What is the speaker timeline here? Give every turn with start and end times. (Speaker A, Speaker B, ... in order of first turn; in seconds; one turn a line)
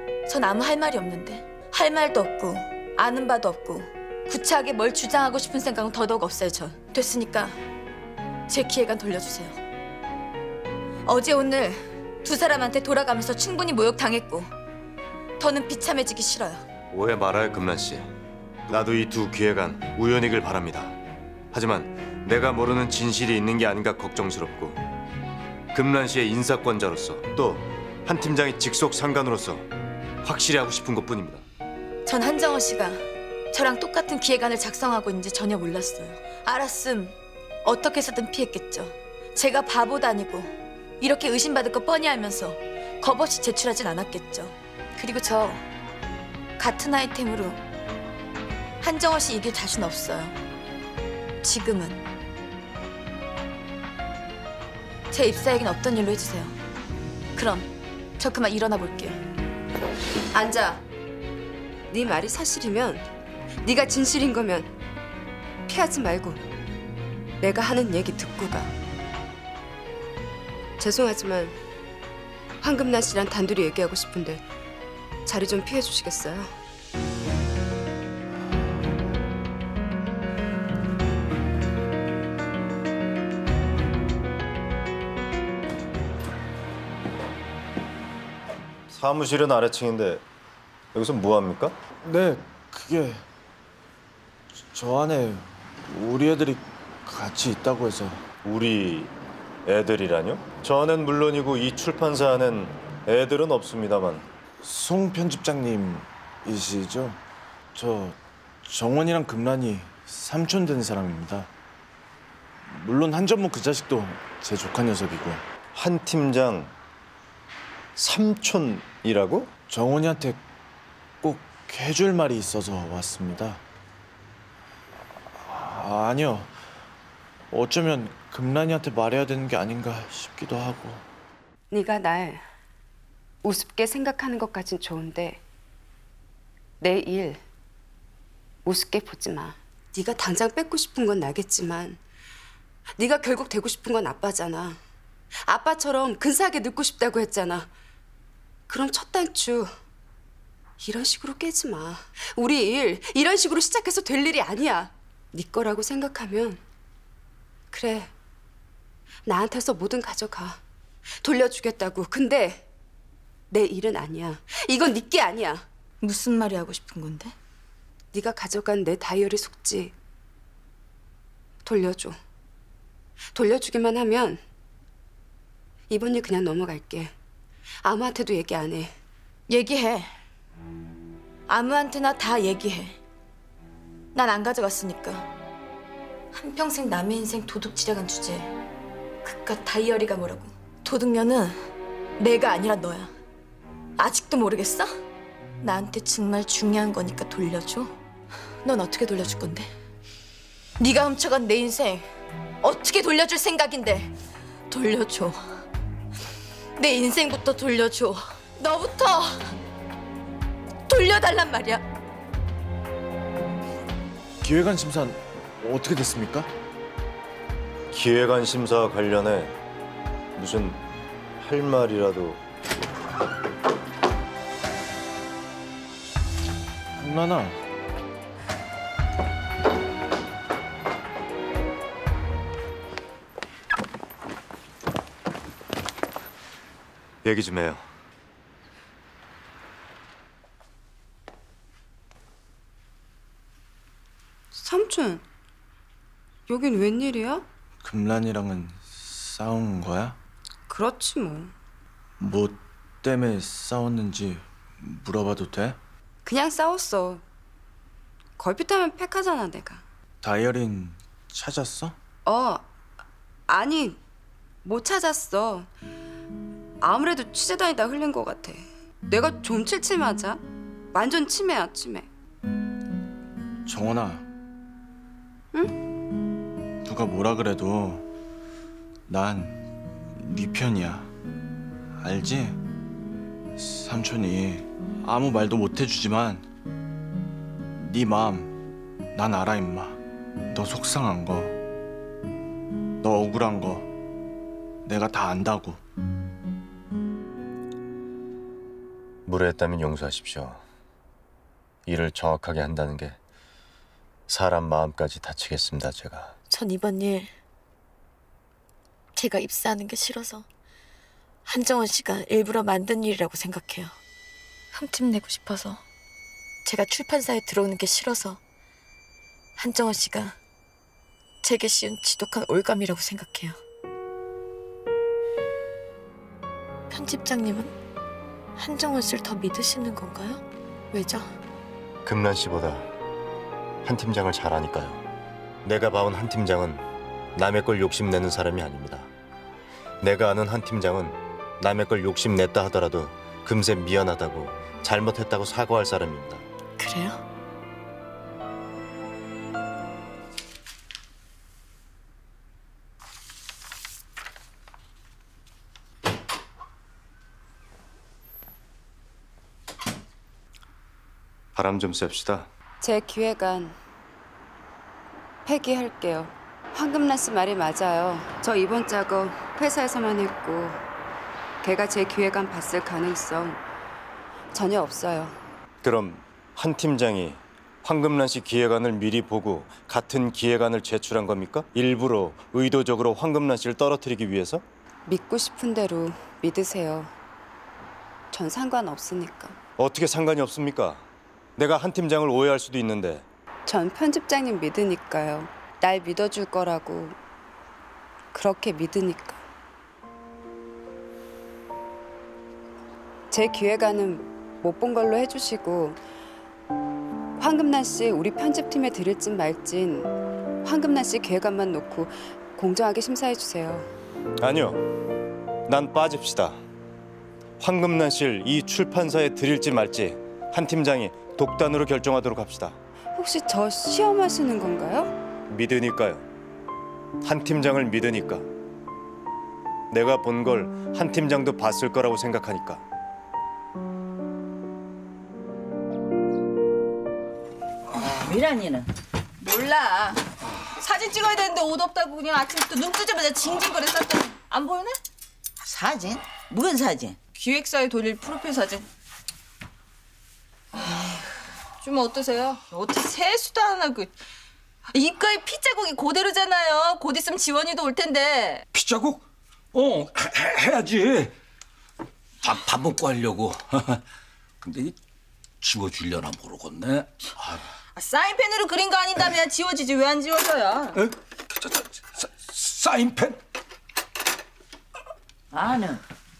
Speaker A: 0.2-7.6
Speaker A: 8.5-9.6
Speaker A: 11.0-14.5
Speaker A: 15.4-16.6
Speaker B: 16.9-18.1
Speaker B: 18.7-20.9
Speaker B: 21.5-24.8
Speaker B: 25.7-29.6
Speaker B: 30.2-31.4
Speaker A: 32.0-45.6
Speaker A: 46.6-47.6
Speaker A: 48.8-50.4
Speaker A: 51.4-52.0
Speaker A: 55.1-56.6
Speaker A: 57.4-59.2
Speaker C: 60.3-60.8
Speaker C: 61.9-63.0
Speaker C: 63.6-64.7
Speaker C: 65.7-66.4
Speaker C: 67.4-68.7
Speaker C: 70.8-71.6
Speaker C: 72.6-74.4
Speaker C: 75.2-76.5
Speaker B: 88.9-90.2
Speaker B: 90.9-91.8
Speaker D: 92.0-93.2
Speaker D: 94.5-98.2
Speaker B: 98.4-99.1
Speaker B: 99.7-104.2
Speaker D: 104.6-107.2
Speaker D: 107.7-111.5
Speaker D: 112.6-115.4
Speaker B: 115.7-116.7
Speaker B: 118.0-119.5
Speaker D: 119.7-120.4
Speaker D: 121.2-123.6
Speaker D: 125.3-126.5
Speaker D: 127.5-131.0
Speaker C: 131.7-132.4
Speaker C: 133.4-135.4
Speaker C: 136.8-137.4
Speaker C: 138.6-142.0
Speaker C: 143.0-144.8
Speaker C: 145.4-147.7
Speaker C: 148.7-149.7
Speaker C: 150.8-156.6
Speaker C: 157.7-158.1
Speaker C: 159.2-160.6
Speaker C: 161.2-162.6
Speaker C: 163.5-165.6
Speaker A: 166.0-167.3
Speaker C: 168.1-169.9
Speaker C: 171.6-172.2
Speaker C: 173.3-174.4
Speaker C: 175.9-177.1
Speaker C: 177.8-178.9
Speaker A: 179.5-180.1
Speaker A: 181.5-183.0
Speaker A: 184.1-185.3
Speaker A: 186.3-188.5
Speaker A: 189.2-193.1
Speaker A: 194.0-194.9
Speaker A: 195.6-198.0
Speaker A: 198.6-199.7
Speaker A: 200.8-202.1
Speaker A: 202.6-204.1
Speaker A: 204.7-205.4
Speaker A: 206.8-209.5
Speaker A: 210.9-211.8
Speaker D: 214.4-216.5
Speaker B: 217.9-219.6
Speaker B: 220.4-220.8
Speaker B: 221.4-222.4
Speaker D: 227.0-227.6
Speaker B: 237.2-237.8
Speaker C: 244.5-245.2
Speaker C: 246.5-247.4
Speaker D: 247.8-250.2
Speaker C: 250.7-251.5
Speaker D: 252.2-255.8
Speaker C: 256.2-257.2
Speaker C: 258.4-259.8
Speaker D: 260.2-261.9
Speaker C: 262.2-262.6
Speaker C: 263.5-264.0
Speaker C: 264.6-265.7
Speaker C: 266.8-270.4
Speaker C: 270.9-272.1
Speaker D: 273.6-274.3
Speaker D: 276.8-278.1
Speaker D: 279.1-279.6
Speaker D: 280.2-281.1
Speaker D: 282.0-282.6
Speaker D: 283.6-286.4
Speaker D: 287.8-288.5
Speaker D: 289.1-291.5
Speaker D: 293.0-293.9
Speaker D: 294.8-295.8
Speaker B: 299.3-300.6
Speaker B: 301.9-303.2
Speaker B: 304.3-306.3
Speaker A: 306.5-307.3
Speaker A: 309.1-310.4
Speaker A: 311.4-313.9
Speaker A: 314.7-315.8
Speaker A: 316.6-318.4
Speaker A: 319.6-320.4
Speaker A: 321.4-323.6
Speaker A: 326.9-327.7
Speaker A: 328.6-331.3
Speaker B: 332.0-332.9
Speaker B: 333.8-335.0
Speaker B: 335.6-339.1
Speaker B: 340.0-346.4
Speaker A: 346.8-347.2
Speaker B: 361.5-362.5
Speaker C: 362.8-363.8
Speaker C: 365.4-370.8
Speaker C: 371.6-373.6
Speaker C: 374.5-375.4
Speaker B: 375.8-384.6
Speaker C: 385.1-387.1
Speaker C: 388.3-389.6
Speaker B: 389.8-391.0
Speaker B: 391.6-393.2
Speaker C: 393.7-397.2
Speaker C: 398.3-399.4
Speaker C: 403.3-406.0
Speaker C: 407.4-413.9
Speaker B: 414.4-414.8
Speaker B: 415.7-416.6
Speaker B: 417.6-422.8
Speaker C: 423.1-425.1
Speaker B: 425.5-426.3
Speaker B: 427.2-428.4
Speaker B: 429.9-432.8
Speaker E: 437.9-438.9
Speaker F: 439.4-440.2
Speaker F: 440.8-445.0
Speaker E: 445.7-447.2
Speaker F: 447.3-448.9
Speaker F: 450.9-451.2
Speaker F: 451.8-454.1
Speaker F: 454.9-458.6
Speaker G: 458.7-459.2
Speaker G: 459.7-461.3
Speaker G: 462.4-464.0
Speaker G: 464.6-464.9
Speaker G: 465.6-467.6
Speaker F: 467.9-471.0
Speaker G: 470.9-473.4
Speaker E: 475.5-476.0